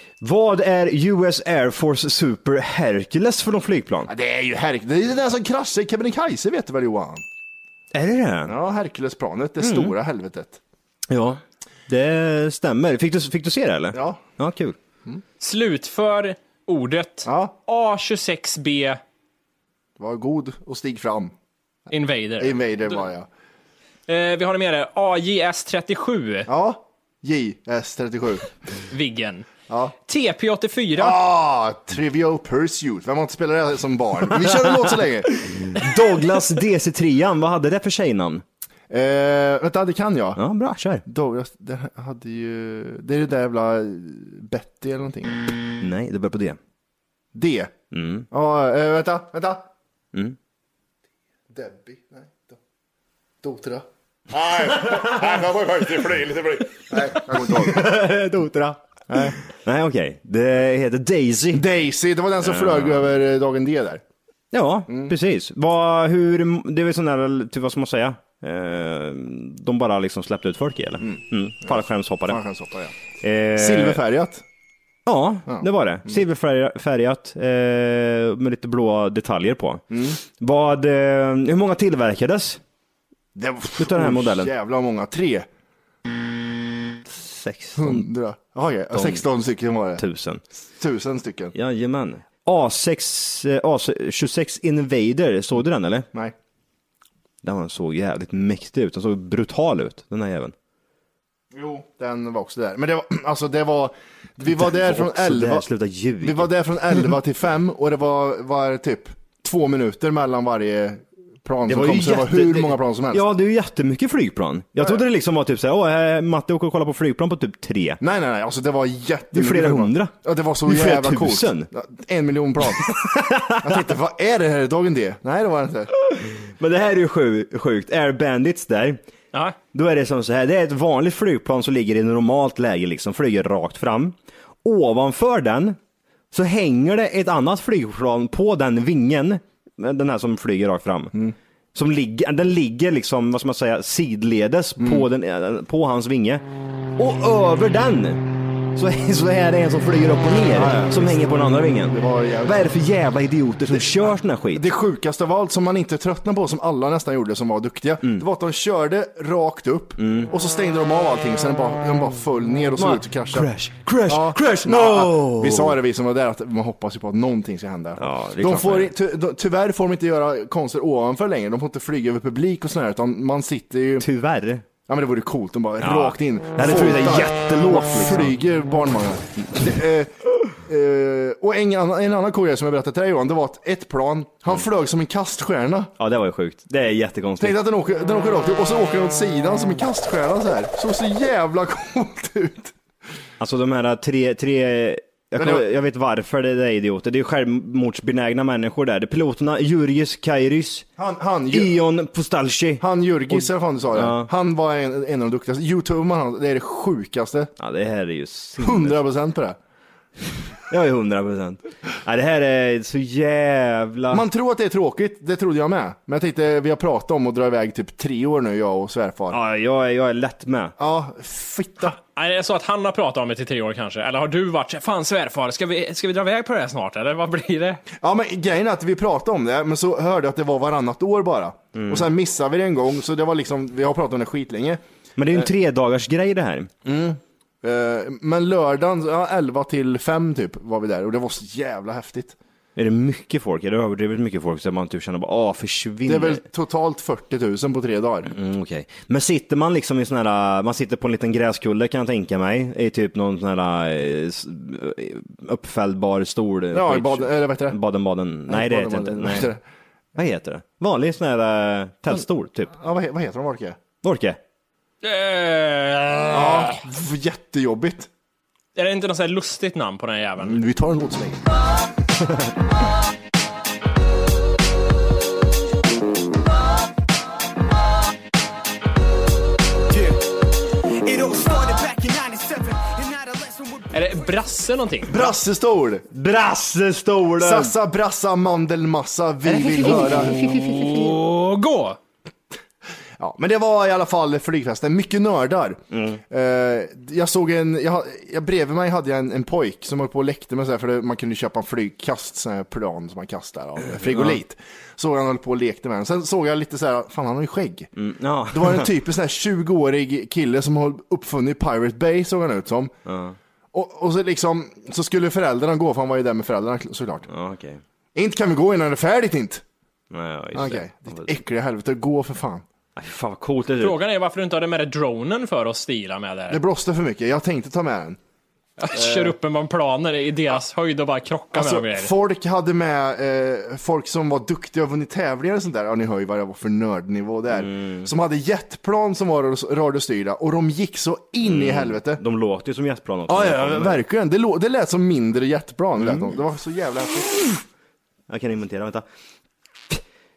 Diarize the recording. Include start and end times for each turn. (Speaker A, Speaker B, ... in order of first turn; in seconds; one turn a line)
Speaker A: 0.2-4.1
Speaker B: 4.1-7.2
Speaker A: 7.9-8.6
Speaker B: 8.5-10.6
Speaker A: 9.6-9.9
Speaker A: 11.1-14.8
Speaker B: 13.9-14.2
Speaker C: 15.4-19.0
Speaker B: 17.2-17.5
Speaker B: 20.0-21.3
Speaker C: 21.9-23.0
Speaker B: 22.4-23.3
Speaker C: 24.1-26.5
Speaker B: 26.5-28.5
Speaker C: 28.9-29.5
Speaker B: 29.7-29.9
Speaker C: 30.1-31.2
Speaker B: 31.0-35.3
Speaker A: 34.4-38.4
Speaker B: 38.9-40.4
Speaker A: 40.4-41.0
Speaker B: 41.1-45.5
Speaker A: 45.8-46.6
Speaker B: 47.3-47.7
Speaker A: 47.9-48.3
Speaker B: 48.3-49.6
Speaker B: 51.5-52.6
Speaker B: 53.4-57.9
Speaker A: 54.8-55.3
Speaker A: 56.9-61.6
Speaker B: 59.1-59.4
Speaker B: 61.5-64.0
Speaker A: 62.4-63.0
Speaker A: 64.5-72.4
Speaker B: 64.9-65.1
Speaker B: 71.0-73.0
Speaker A: 73.2-74.0
Speaker B: 73.6-74.4
Speaker A: 75.1-82.6
Speaker B: 75.5-76.2
Speaker B: 79.9-80.2
Speaker B: 83.3-85.5
Speaker A: 83.8-84.5
Speaker A: 87.1-88.1
Speaker B: 87.8-90.0
Speaker A: 88.9-89.2
Speaker A: 90.0-90.4
Speaker B: 90.8-91.5
Speaker A: 91.5-96.1
Speaker A: 97.4-100.5
Speaker B: 101.5-105.7
Speaker A: 104.5-107.1
Speaker B: 106.2-113.2
Speaker A: 111.7-118.0
Speaker B: 118.0-123.0
Speaker A: 119.3-120.1
Speaker A: 120.7-121.7
Speaker A: 122.8-123.9
Speaker B: 123.6-125.9
Speaker A: 126.1-129.0
Speaker A: 129.7-135.8
Speaker A: 136.3-141.1
Speaker A: 141.7-146.4
Speaker B: 144.8-145.1
Speaker A: 147.0-148.2
Speaker A: 148.8-154.7
Speaker B: 150.5-152.7
Speaker B: 153.7-163.5
Speaker A: 160.0-160.3
Speaker A: 162.8-165.8
Speaker B: 164.1-174.1
Speaker A: 168.0-168.9
Speaker A: 174.0-174.7
Speaker B: 174.9-185.9
Speaker A: 175.8-178.4
Speaker A: 186.0-187.6
Speaker B: 187.4-192.7
Speaker A: 193.4-200.9
Speaker B: 195.4-195.7
Speaker B: 201.0-201.8
Speaker A: 201.5-204.3
Speaker B: 202.8-207.5
Speaker A: 207.6-209.0
Speaker B: 208.6-209.6
Speaker A: 210.7-214.3
Speaker B: 214.1-219.4
Speaker A: 219.3-220.8
Speaker B: 220.8-222.0
Speaker C: 222.0-227.8
Speaker B: 228.0-234.8
Speaker A: 231.7-232.1
Speaker A: 235.2-236.7
Speaker B: 236.8-242.3
Speaker A: 242.8-246.4
Speaker B: 246.1-248.3
Speaker A: 248.3-259.5
Speaker B: 256.7-257.8
Speaker B: 258.5-259.6
Speaker A: 260.2-262.7
Speaker B: 262.8-263.8
Speaker A: 264.0-264.4
Speaker C: 265.0-266.8
Speaker B: 266.3-268.1
Speaker C: 268.8-270.6
Speaker B: 270.4-271.4
Speaker D: 281.1-283.8
Speaker C: 283.9-285.2
Speaker B: 285.1-286.1
Speaker A: 286.1-287.7
Speaker B: 287.4-290.4
Speaker A: 289.8-290.2
Speaker C: 289.9-292.0
Speaker A: 290.8-291.0
Speaker B: 293.2-307.9
Speaker A: 295.9-296.2
Speaker A: 303.8-304.4
Speaker A: 307.9-308.9
Speaker B: 308.5-312.9
Speaker A: 313.1-313.4
Speaker B: 313.7-317.3
Speaker A: 317.3-317.8
Speaker B: 318.1-319.6
Speaker A: 320.1-321.4
Speaker B: 320.5-322.6
Speaker A: 323.0-324.0
Speaker C: 323.8-326.6
Speaker B: 326.5-328.2
Speaker C: 328.8-332.1
Speaker B: 328.9-329.3
Speaker B: 331.5-342.2
Speaker A: 337.5-338.1
Speaker A: 341.4-344.0
Speaker B: 343.3-347.6
Speaker A: 346.0-346.3
Speaker A: 348.3-349.1